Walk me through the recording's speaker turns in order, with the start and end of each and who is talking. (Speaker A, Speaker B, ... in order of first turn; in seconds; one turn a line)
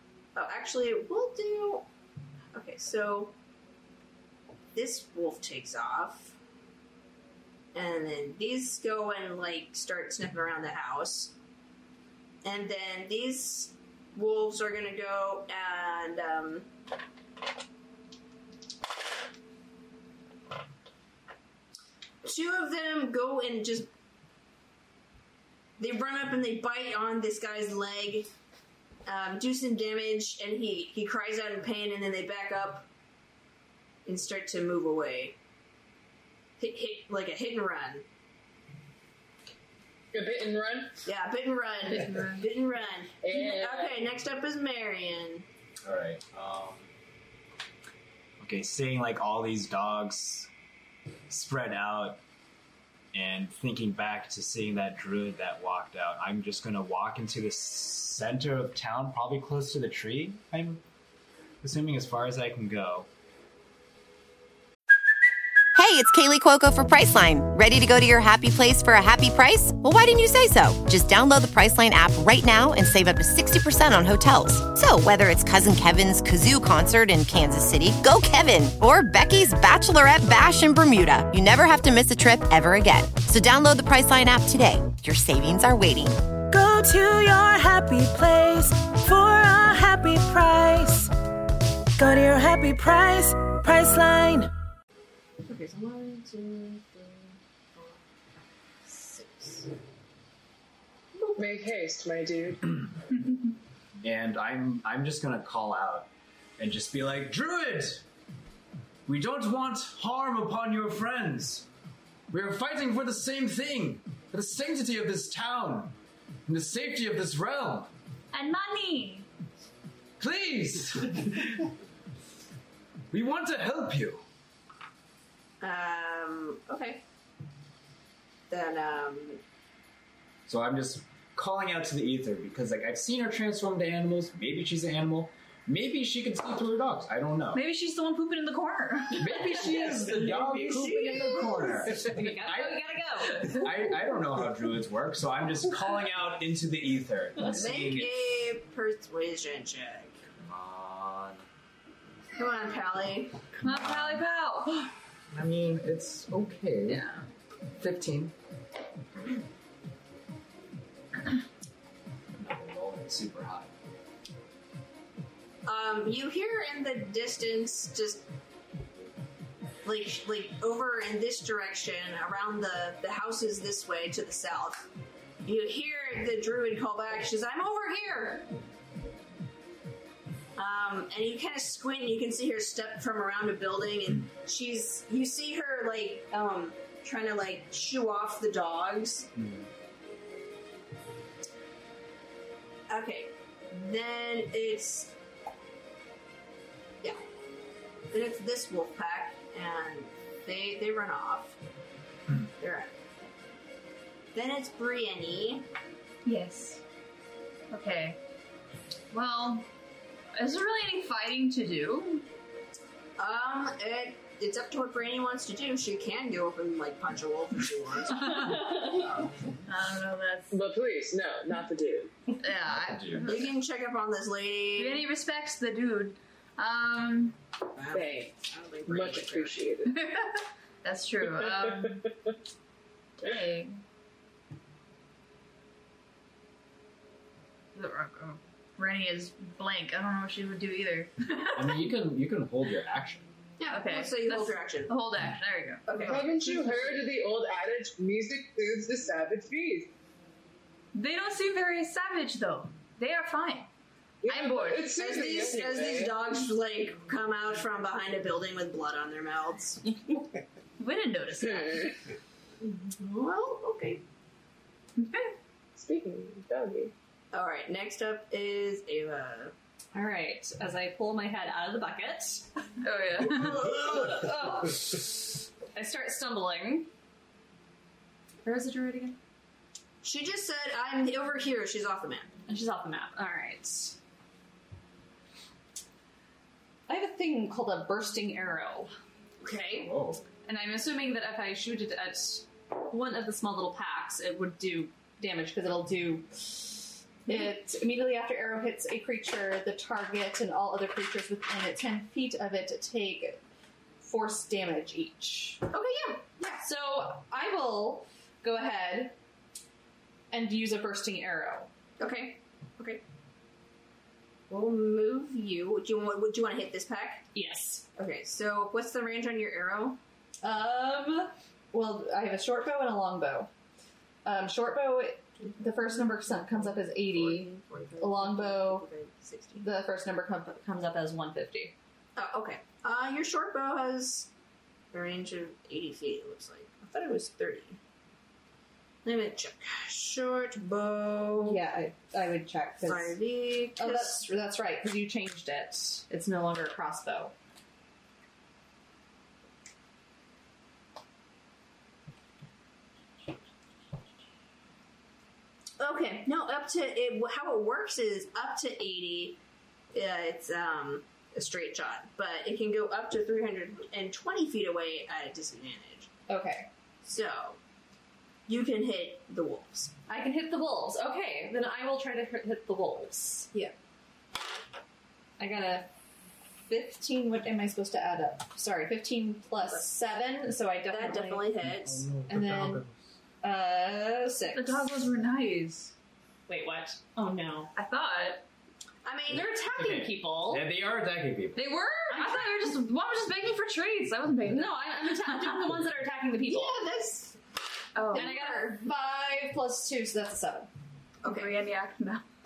Speaker A: 0.3-1.9
Speaker A: 2.5-3.4
Speaker A: 4.7-6.4
Speaker A: 7.7-11.3
Speaker A: 12.4-16.7
Speaker A: 22.2-23.9
Speaker A: 25.8-28.3
Speaker A: 29.1-32.9
Speaker A: 34.1-35.4
Speaker A: 36.6-38.0
Speaker B: 40.1-40.9
Speaker A: 41.1-45.5
Speaker B: 43.2-44.1
Speaker C: 45.8-46.9
Speaker C: 48.4-50.5
Speaker C: 51.3-52.2
Speaker C: 53.1-60.8
Speaker C: 61.6-63.1
Speaker D: 65.8-86.2
Speaker E: 86.5-91.1
Speaker E: 92.0-94.5
Speaker A: 95.5-98.0
Speaker A: 98.9-99.7
Speaker B: 101.4-102.8
Speaker C: 104.0-108.0
Speaker C: 109.1-111.7
Speaker C: 112.3-115.9
Speaker C: 116.5-117.9
Speaker F: 118.3-119.3
Speaker C: 120.2-121.7
Speaker C: 123.1-124.2
Speaker A: 125.6-127.0
Speaker A: 128.5-129.4
Speaker C: 130.5-137.6
Speaker F: 137.5-139.3
Speaker C: 139.1-148.2
Speaker A: 139.6-142.1
Speaker G: 141.9-143.6
Speaker A: 147.5-150.2
Speaker C: 150.4-151.4
Speaker A: 152.4-153.4
Speaker C: 153.5-154.2
Speaker F: 153.6-154.9
Speaker C: 155.3-157.0
Speaker F: 156.9-157.2
Speaker C: 157.8-158.3
Speaker C: 162.4-163.7
Speaker A: 165.7-168.3
Speaker A: 169.8-174.9
Speaker A: 175.4-178.5
Speaker A: 180.6-189.3
Speaker C: 189.4-189.7
Speaker A: 192.9-195.1
Speaker A: 198.1-201.6
Speaker A: 202.6-202.9
Speaker A: 204.3-205.7
Speaker F: 206.2-206.8
Speaker F: 207.7-208.2
Speaker F: 209.1-209.7
Speaker F: 210.3-212.2
Speaker A: 213.2-219.3
Speaker F: 218.2-219.0
Speaker F: 219.7-220.5
Speaker B: 220.5-222.2
Speaker F: 222.4-223.6
Speaker C: 222.6-223.4
Speaker A: 223.3-225.1
Speaker F: 224.8-227.4
Speaker A: 227.8-229.7
Speaker B: 227.9-230.0
Speaker F: 229.9-232.1
Speaker B: 231.4-231.9
Speaker F: 233.2-233.8
Speaker F: 237.8-241.9
Speaker C: 241.6-243.3
Speaker A: 243.6-244.9
Speaker F: 243.7-246.2
Speaker A: 245.9-246.3
Speaker B: 246.0-249.9
Speaker F: 250.9-253.7
Speaker B: 254.2-256.2
Speaker F: 254.3-255.0
Speaker A: 255.0-260.0
Speaker F: 260.8-262.0
Speaker B: 261.6-261.9
Speaker A: 262.6-264.0
Speaker F: 265.0-265.4
Speaker B: 265.8-266.9
Speaker A: 267.3-269.5
Speaker G: 269.9-272.5
Speaker F: 272.8-273.8
Speaker A: 273.3-274.4
Speaker G: 273.9-274.7
Speaker G: 275.7-276.9
Speaker G: 278.4-279.2
Speaker A: 280.0-282.3
Speaker G: 282.5-284.0
Speaker G: 286.9-288.9
Speaker A: 289.4-289.9
Speaker C: 289.7-290.2
Speaker G: 290.5-303.4
Speaker G: 304.0-305.6
Speaker A: 305.7-306.6
Speaker G: 306.6-309.1
Speaker G: 310.3-311.7
Speaker A: 312.0-313.0
Speaker A: 314.5-317.2
Speaker G: 317.3-317.9
Speaker A: 317.9-320.0
Speaker G: 320.4-323.5
Speaker G: 324.2-328.9
Speaker A: 325.4-329.7
Speaker G: 329.6-331.7
Speaker A: 332.2-334.3
Speaker A: 334.9-337.8
Speaker A: 339.0-341.6
Speaker G: 341.4-343.2
Speaker A: 342.8-344.3
Speaker G: 343.8-347.3
Speaker A: 355.8-359.4
Speaker A: 359.9-366.1
Speaker G: 366.3-366.7
Speaker A: 367.0-367.6
Speaker A: 368.5-369.9
Speaker G: 370.1-373.7
Speaker G: 375.4-375.9
Speaker G: 376.7-381.5
Speaker A: 380.9-382.1
Speaker C: 381.6-382.9
Speaker G: 382.3-382.8
Speaker G: 383.4-384.9
Speaker F: 384.5-385.9
Speaker G: 386.5-387.7
Speaker F: 387.8-388.4
Speaker A: 389.1-389.5
Speaker G: 389.3-390.7
Speaker C: 389.4-391.6
Speaker F: 391.6-395.7
Speaker G: 392.1-392.6
Speaker G: 394.5-396.8
Speaker A: 396.5-397.4
Speaker F: 397.9-398.4
Speaker A: 398.1-398.4
Speaker G: 398.1-400.7
Speaker A: 401.2-401.5
Speaker F: 401.2-402.2